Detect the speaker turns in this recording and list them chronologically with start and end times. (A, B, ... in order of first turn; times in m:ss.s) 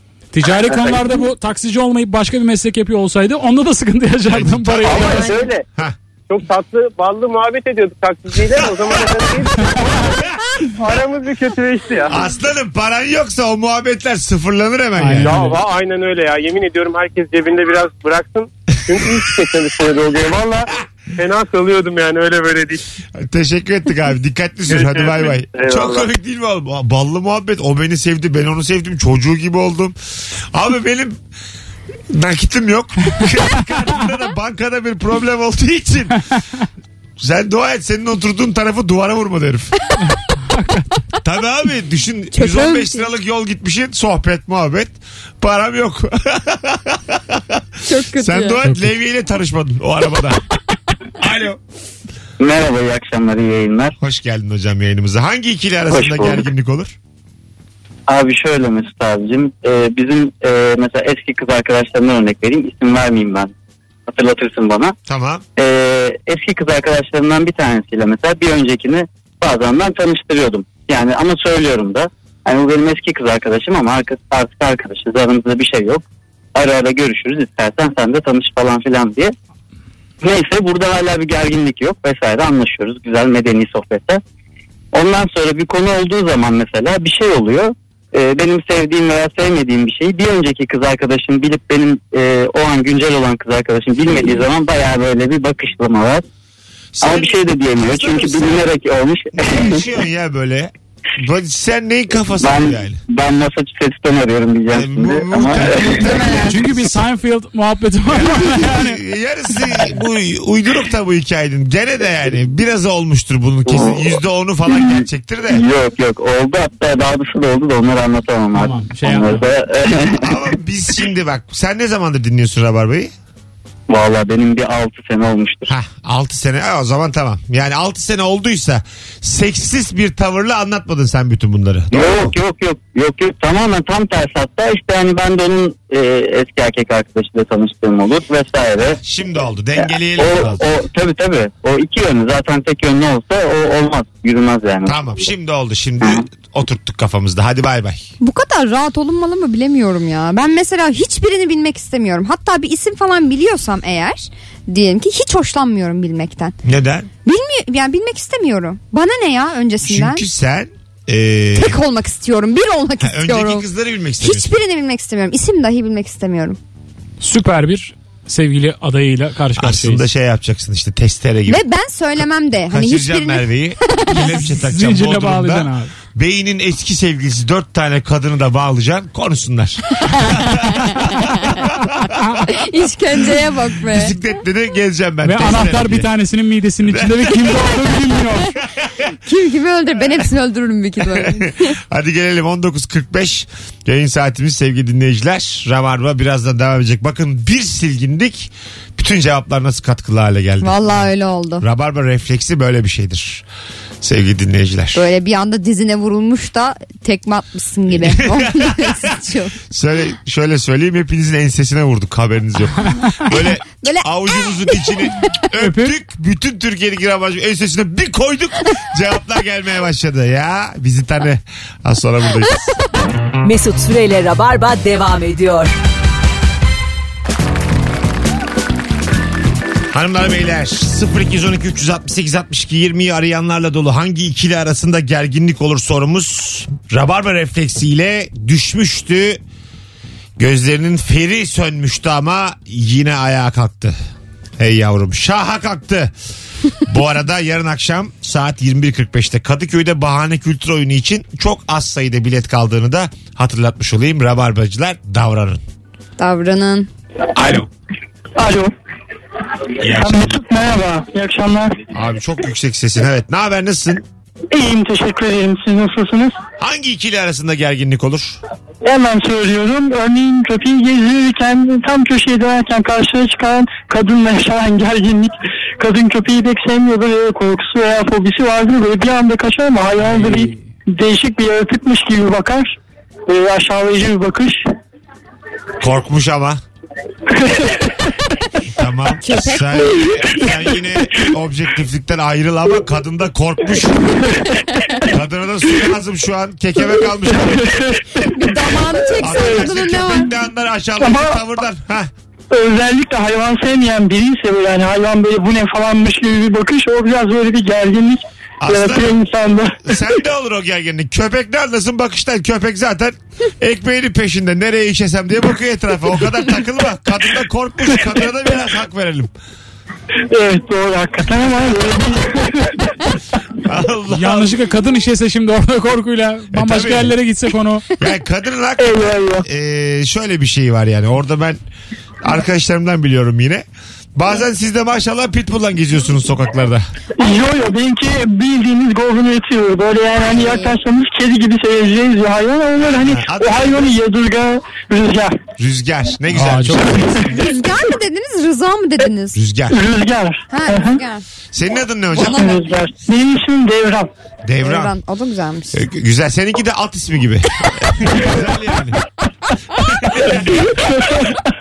0:00.3-0:05.4 A
0:00.7-0:01.0 B
0:04.3-0:05.9 C
0:04.8-0:05.6 B
0:06.3-0:10.1 B
0:08.6-0:09.2 C
0:10.8-0:12.2 B
0:12.1-0:15.4 C
0:15.0-0:15.6 A
0:15.2-0:22.8 B
0:23.2-0:30.0 C
0:24.7-0:25.9 B
0:30.5-0:31.2 C
0:32.1-0:36.2 C
0:37.2-0:39.8 C
0:40.5-0:40.8 A
0:41.2-0:47.6 C
0:42.3-0:43.1 D
0:47.8-0:48.6 D
0:48.1-0:50.4 C
0:51.2-0:51.6 C
0:52.4-0:53.9 E
0:54.0-0:56.9 C
0:55.9-0:56.5 E
0:58.1-1:03.5 E
1:04.1-1:04.9 E
1:05.1-1:05.4 C
1:05.6-1:16.0 E
1:16.5-1:19.3 E
1:20.2-1:24.2 E
1:24.9-1:36.2 E
1:37.0-1:38.7 C
1:37.0-1:39.8 E
1:39.3-1:43.0 C
1:42.4-1:45.7 E
1:44.7-1:46.8 C
1:46.3-1:49.0 A
1:48.1-1:55.6 C
1:53.7-1:54.0 E
1:55.5-2:00.3 E
1:58.5-1:59.5 A
2:00.2-2:03.1 C
2:03.9-2:05.7 E
2:05.7-2:12.4 C
2:11.9-2:19.0 E
2:19.0-2:20.7 C
2:19.8-2:25.2 E
2:24.8-2:28.1 C
2:28.2-2:36.6 D
2:36.6-2:37.1 C
2:37.2-2:40.2 D
2:39.8-2:41.8 C
2:41.5-2:43.6 D
2:43.0-2:44.5 C
2:44.2-2:46.6 D
2:47.2-2:50.0 A
2:49.6-2:51.6 C
2:51.5-2:54.4 D
2:52.7-3:02.4 C
2:54.4-2:55.9 A
3:00.5-3:01.5 D
3:02.5-3:04.1 D
3:03.8-3:06.1 C
3:05.2-3:08.5 A
3:06.8-3:07.5 C
3:09.2-3:11.7 D
3:11.1-3:21.1 C
3:20.6-3:21.6 D
3:21.6-3:23.4 C
3:24.0-3:25.0 C
3:24.9-3:29.6 D
3:28.0-3:29.1 C
3:29.7-3:42.7 C
3:33.8-3:35.0 D
3:35.6-3:35.9 A
3:43.4-3:45.7 F
3:49.9-3:59.4 C
4:00.4-4:04.0 C
4:04.6-4:06.1 C
4:06.8-4:15.6 C
4:16.2-4:16.9 D
4:17.3-4:17.7 C
4:18.4-4:18.7 G
4:19.8-4:20.4 C
4:19.9-4:21.8 G
4:21.9-4:24.0 C
4:24.5-4:26.4 G
4:26.6-4:28.4 C
4:28.8-4:42.7 G
4:40.0-4:40.6 A
4:43.3-4:44.6 G
4:45.8-4:46.6 C
4:47.3-4:48.0 G
4:48.7-4:54.2 C
4:49.2-4:49.8 D
4:55.1-4:57.8 C
4:57.4-4:58.0 G
4:58.2-5:00.3 D
4:59.2-5:02.1 C
5:01.0-5:01.4 G
5:02.5-5:09.8 G
5:08.6-5:09.2 C
5:09.8-5:19.3 C
5:20.3-5:22.8 G
5:23.6-5:24.6 C
5:24.1-5:27.8 A
5:26.5-5:27.1 C
5:28.0-5:28.9 C
5:28.8-5:29.4 G
5:29.4-5:31.6 C
5:32.2-5:33.6 C
5:34.2-5:36.9 C
5:37.2-5:45.4 G
5:40.2-5:40.8 D
5:43.0-5:43.9 C
5:45.6-5:47.2 C
5:46.3-5:47.2 A
5:47.3-5:49.4 D
5:49.3-5:49.8 C
5:49.7-5:51.0 G
5:50.5-5:51.2 D
5:51.5-5:52.5 C
5:52.1-5:52.6 D
5:52.2-5:54.1 G
5:54.4-5:55.0 C
5:54.6-5:55.8 D
5:55.7-5:59.0 C
5:59.8-6:00.6 C
6:00.6-6:01.4 G